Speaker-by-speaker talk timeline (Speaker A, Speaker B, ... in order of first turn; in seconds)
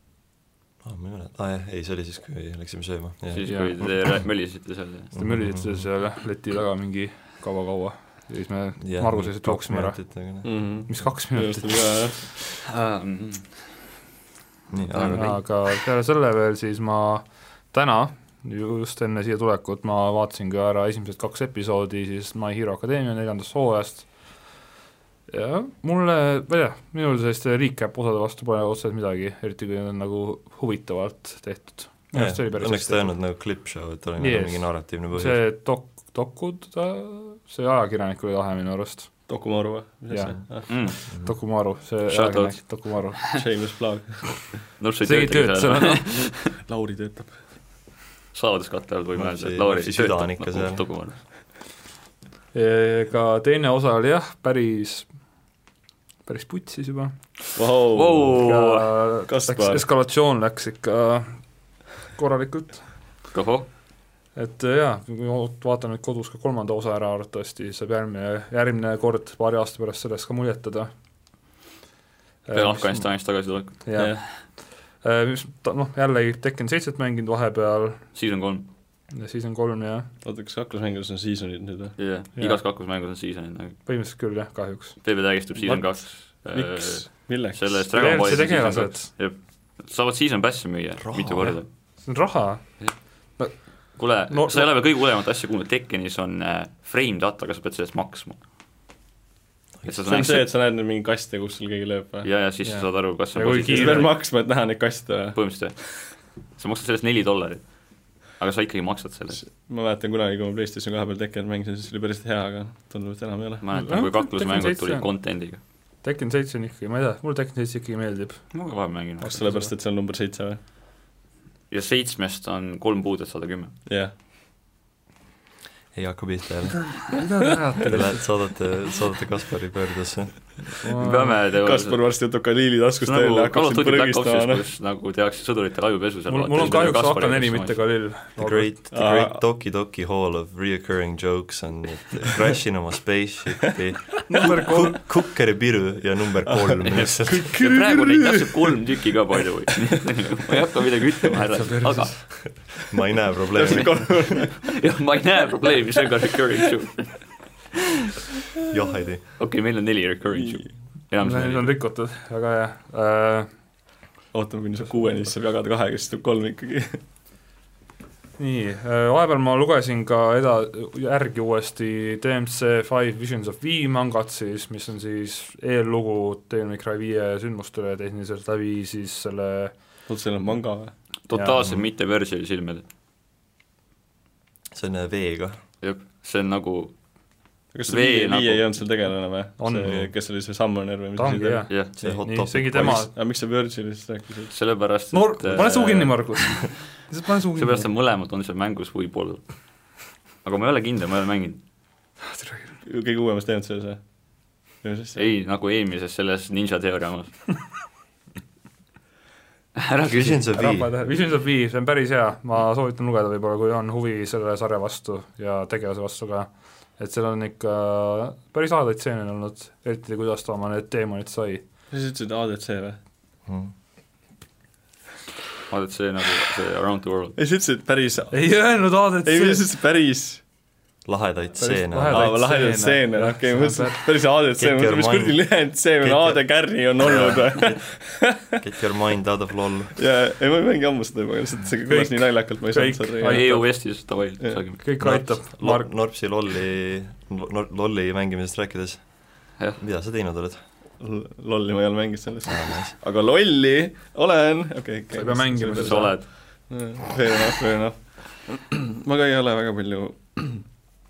Speaker A: 0.8-4.0, 5.1-5.9, 8.8-10.5, 14.7-15.4, 32.1-35.4, 49.1-50.9, 91.0-91.6, 125.9-127.2, 127.9-130.6, 138.4-147.5, 152.7-154.3, 158.7-159.3, 184.7-185.6, 192.0-193.1, 210.1-210.9, 223.4-223.7, 231.0-232.4, 234.6-237.3, 238.6-239.9, 245.0-250.6, 252.5-252.9
Speaker B: 3.3-5.1, 12.7-13.5, 14.9-15.3, 40.7-41.0, 42.1-43.2, 44.8-46.5, 48.3-51.2, 57.9-58.9, 63.3-63.7, 72.5-74.2, 78.1-78.7, 82.0-83.8, 85.0-91.7, 93.5-98.4, 99.8-100.5, 102.2-104.2, 105.3-109.4, 113.6-115.6, 118.5-119.5, 121.7-123.7, 131.0-132.0, 133.0-138.0, 146.9-152.5, 153.7-157.3, 159.4-161.8, 181.3-182.8, 185.8-186.9, 187.8-188.7, 191.7-191.9, 194.5-196.8, 197.5-199.5, 200.4-201.6, 205.2-207.4, 209.8-210.4, 225.7-227.4, 243.2-244.8, 255.8-256.3
Speaker C: 3.4-3.8, 5.2-10.0, 10.8-11.9, 15.1-24.6, 25.3-33.3, 34.2-39.3, 40.1-43.4, 45.0-46.2, 52.5-55.1, 56.2-57.1, 58.4-61.4, 62.0-62.9, 64.3-70.9, 72.5-73.3, 73.8-78.1, 79.1-80.1, 82.3-82.6, 83.8-86.0, 87.9-89.1, 92.0-94.7, 102.6-104.1, 113.7-115.2, 116.0-118.6, 119.2-119.7, 127.1-128.3, 130.7-131.4, 136.3-138.7, 144.3-145.0, 151.5-152.3, 161.2-163.5, 168.4-179.7, 181.3-181.6, 189.6-190.1, 191.2-193.1, 195.1-197.9, 202.2-202.8, 210.5-221.6, 228.3-229.6, 231.6-234.0, 241.8-243.7, 244.8-245.9, 255.1-256.2
Speaker D: 10.4-12.3, 39.3-40.7, 43.3-44.6, 46.4-47.4, 57.5-58.4, 59.3-59.9, 80.2-82.0, 86.5-88.4, 100.0-102.3, 103.7-105.8, 109.4-113.7, 119.3-120.6, 123.9-124.1, 131.5-134.6, 138.9-139.4, 146.4-148.8, 153.5-154.7, 160.3-160.7, 164.3-167.0, 180.1-180.9, 187.7-191.7, 192.8-194.5, 202.8-204.1, 204.7-205.2, 221.9-223.0, 227.4-230.4, 232.1-238.6, 239.9-243.6, 251.0-260.7